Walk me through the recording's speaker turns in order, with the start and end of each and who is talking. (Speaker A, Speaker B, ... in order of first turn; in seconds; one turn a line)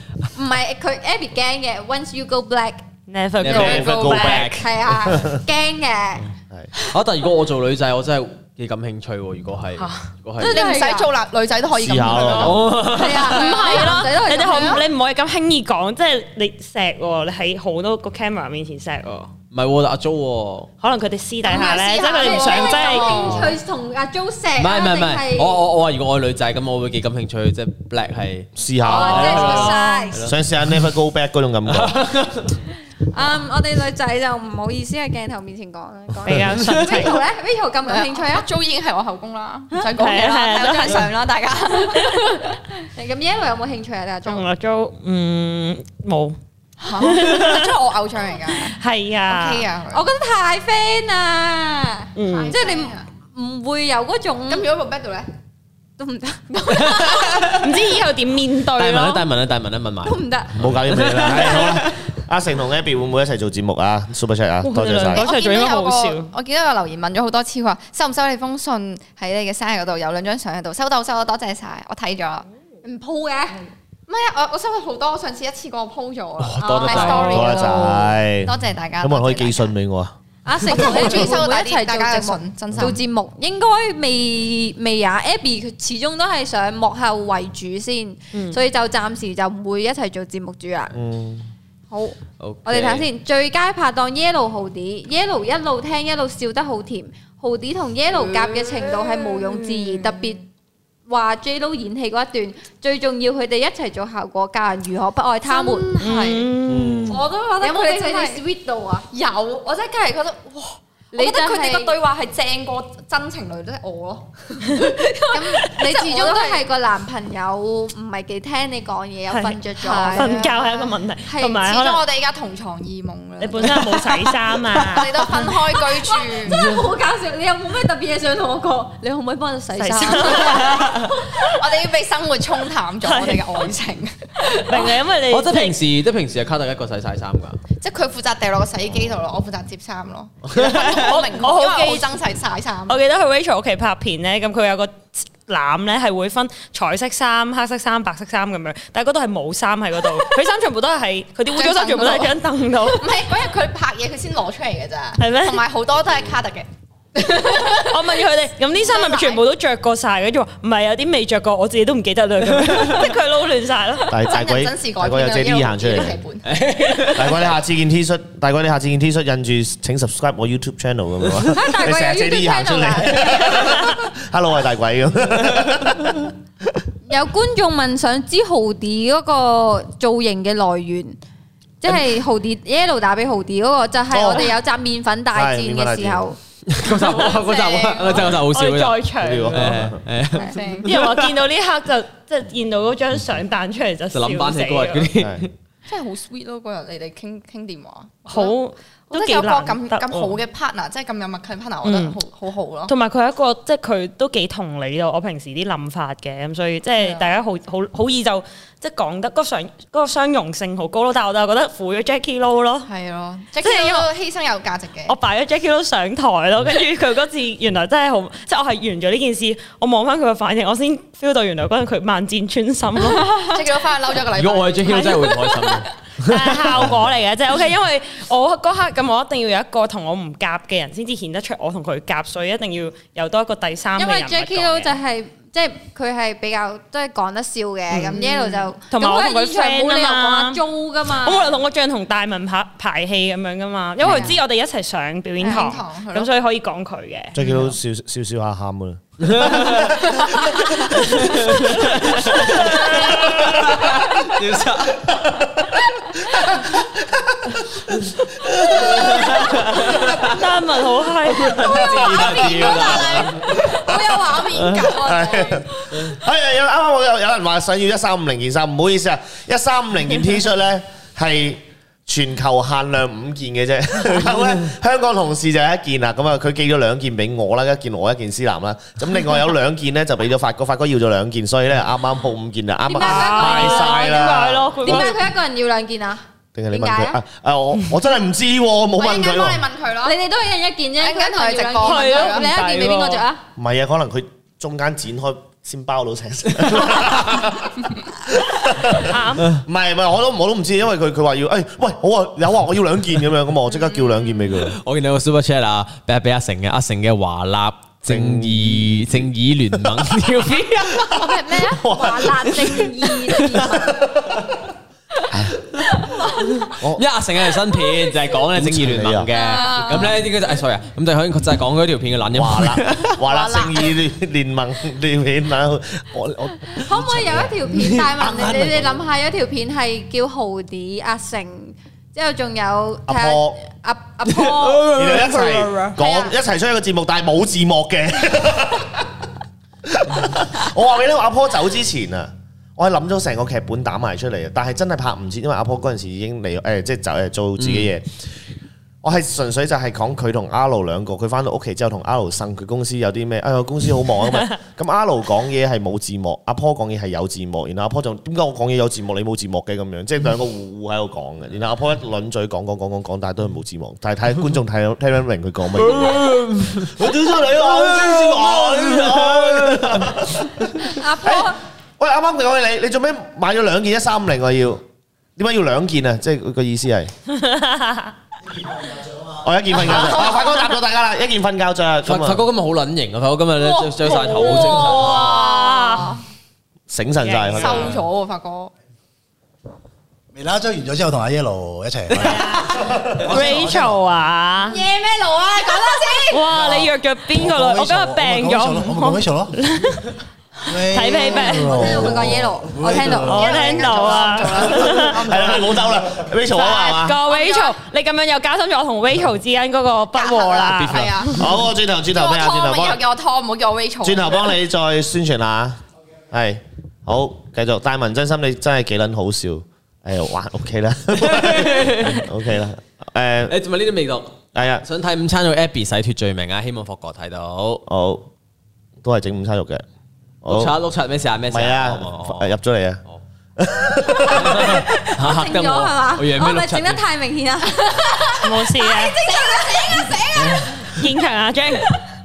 Speaker A: 0.3-2.8
Speaker B: 3.1-4.5
Speaker C: 3.4-4.9
Speaker D: 3.5-5.4
Speaker E: 3.6-3.9
Speaker A: 4.5-6.3
Speaker C: 6.9-10.6
Speaker B: 9.8-10.1
Speaker E: 10.4-14.8
Speaker A: 10.4-11.1
Speaker D: 11.7-12.7
Speaker C: 12.3-13.5
Speaker A: 12.9-14.8
Speaker B: 13.5-19.3
Speaker C: 19.5-20.7
Speaker B: 20.8-23.3
Speaker E: 21.4-23.6
Speaker A: 21.5-25.6
Speaker C: 24.6-30.4
Speaker D: 28.6-29.6
Speaker A: 28.8-30.2
Speaker B: 29.1-30.1
Speaker D: 30.2-32.1
Speaker C: 31.7-32.6
Speaker A: 33.1-38.5
Speaker B: 36.2-37.2
Speaker E: 37.9-42.5
Speaker B: 39.9-41.1
Speaker A: 42.1-44.5
Speaker B: 44.3-46.4
Speaker E: 46.8-50.1
Speaker B: 47.0-47.8
Speaker B: 48.5-49.7
Speaker A: 49.9-54.7
Speaker B: 52.2-52.6
Speaker E: 52.2-53.1
Speaker E: 54.5-55.3
Speaker A: 56.0-57.1
Speaker E: 56.5-57.8
Speaker C: 56.9-57.4
Speaker B: 57.6-59.3
Speaker C: 58.7-62.2
Speaker A: 60.0-60.6
Speaker D: 60.6-65.3
Speaker B: 64.6-66.3
Speaker E: 65.1-72.5
Speaker A: 72.8-73.7
Speaker E: 74.1-79.7
Speaker C: 76.4-77.7
Speaker A: 76.7-77.5
Speaker D: 77.0-80.2
Speaker A: 80.5-91.0
Speaker E: 80.7-83.0
Speaker B: 88.3-88.6
Speaker D: 90.9-91.5
Speaker A: 91.9-100.4
Speaker C: 92.4-93.0
Speaker E: 98.1-100.3
Speaker A: 101.1-105.9
Speaker E: 105.5-106.5
Speaker B: 106.0-107.2
Speaker D: 106.7-107.2
Speaker A: 107.1-109.1
Speaker E: 107.6-108.4
Speaker E: 109.1-116.6
Speaker A: 111.1-112.0
Speaker A: 115.3-120.5
Speaker B: 119.3-122.0
Speaker E: 119.8-126.5
Speaker B: 123.4-125.6
Speaker A: 126.4-131.1
Speaker B: 129.8-131.1
Speaker E: 130.2-135.0
Speaker B: 133.0-133.7
Speaker B: 134.5-135.8
Speaker C: 135.3-137.6
Speaker E: 137.8-143.0
Speaker C: 140.6-140.9
Speaker B: 140.8-142.1
Speaker B: 142.9-153.1
Speaker E: 151.5-159.4
Speaker B: 155.2-155.6
Speaker B: 157.8-164.2
Speaker C: 162.6-163.1
Speaker D: 164.1-166.2
Speaker E: 164.2-166.5
Speaker C: 166.4-167.5
Speaker D: 167.1-176.8
Speaker A: 171.5-173.6
Speaker A: 177.1-181.2
Speaker A: 181.8-186.4
Speaker D: 184.1-184.6
Speaker D: 185.3-186.3
Speaker C: 186.7-189.0
Speaker E: 186.9-188.4
Speaker B: 188.2-190.0
Speaker D: 189.2-190.0
Speaker C: 189.5-191.4
Speaker E: 190.3-190.9
Speaker B: 190.8-195.1
Speaker C: 194.1-195.5
Speaker D: 195.2-195.5
Speaker E: 195.9-198.6
Speaker B: 198.3-200.4
Speaker E: 199.1-202.9
Speaker B: 201.8-202.2
Speaker B: 202.9-212.9
Speaker E: 207.0-207.4
Speaker E: 212.9-215.2
Speaker B: 213.6-214.1
Speaker B: 215.1-223.6
Speaker E: 223.0-225.8
Speaker C: 224.3-226.9
Speaker B: 224.9-225.3
Speaker B: 226.2-234.9
Speaker A: 234.0-241.6
Speaker E: 238.0-238.7
Speaker B: 238.9-240.6
Speaker B: 241.1-247.4
Speaker E: 244.0-244.4
Speaker E: 245.4-246.3
Speaker D: 247.3-250.2
Speaker C: 249.2-250.0
Speaker C: 251.0-255.2
Speaker D: 251.1-252.2
Speaker B: 252.7-253.3
Speaker D: 253.0-254.1
Speaker D: 255.1-259.9
Speaker C: 258.7-260.4
Speaker B: 260.2-262.1
Speaker C: 261.3-263.5
Speaker E: 261.7-265.9
Speaker D: 261.8-285.2
Speaker C: 264.6-264.8
Speaker A: 282.9-287.2
Speaker B: 283.0-285.2
Speaker D: 286.6-289.7
Speaker E: 289.0-290.2
Speaker A: 290.0-293.4
Speaker E: 291.0-292.5
Speaker B: 291.8-293.2
Speaker D: 293.6-304.8
Speaker B: 298.9-299.5
Speaker E: 303.9-304.2
Speaker C: 304.6-311.2
Speaker D: 308.1-309.2
Speaker D: 309.8-310.3
Speaker A: 311.1-314.0
Speaker D: 311.1-312.9
Speaker C: 313.3-313.7
Speaker D: 313.8-314.6
Speaker D: 315.3-315.6
Speaker C: 316.5-323.2
Speaker D: 316.7-317.1
Speaker D: 318.5-319.3
Speaker E: 319.4-320.2
Speaker A: 319.4-320.1
Speaker D: 322.3-329.0
Speaker E: 323.2-323.9
Speaker A: 326.8-334.9
Speaker D: 333.1-333.6
Speaker C: 334.3-335.9
Speaker D: 334.9-339.2
Speaker E: 336.0-336.3
Speaker D: 339.9-348.3
Speaker C: 347.6-347.9
Speaker D: 349.0-374.8
Speaker C: 365.8-370.6
Speaker A: 370.8-371.6
Speaker D: 375.4-377.1
Speaker B: 377.4-378.1
Speaker D: 379.4-382.4
Speaker C: 382.1-385.4
Speaker E: 383.6-386.2
Speaker B: 384.1-386.2
Speaker D: 386.9-388.0
Speaker B: 387.2-387.9
Speaker E: 387.5-388.7
Speaker F: 390.3-394.0
Speaker B: 392.1-394.8
Speaker E: 394.6-396.6
Speaker B: 396.3-400.1
Speaker F: 396.5-399.6
Speaker F: 400.7-403.6
Speaker B: 400.9-401.8
Speaker A: 401.5-404.3
Speaker B: 403.3-405.2
Speaker E: 403.3-405.9
Speaker D: 404.6-407.2
Speaker B: 406.6-411.4
Speaker E: 407.3-407.8
Speaker E: 410.1-411.5
Speaker C: 410.7-411.4
Speaker D: 411.4-413.0
Speaker E: 412.1-414.5
Speaker D: 414.0-423.6
Speaker C: 421.2-422.3
Speaker C: 423.5-427.8
Speaker D: 424.6-424.9
Speaker D: 427.9-428.3
Speaker D: 429.0-429.8
Speaker D: 430.4-430.7
Speaker C: 430.5-432.5
Speaker D: 431.5-433.0
Speaker D: 433.6-434.9
Speaker C: 434.3-437.0
Speaker A: 434.6-438.4
Speaker E: 437.9-441.1
Speaker B: 438.4-439.2
Speaker A: 439.8-440.3
Speaker B: 440.8-442.0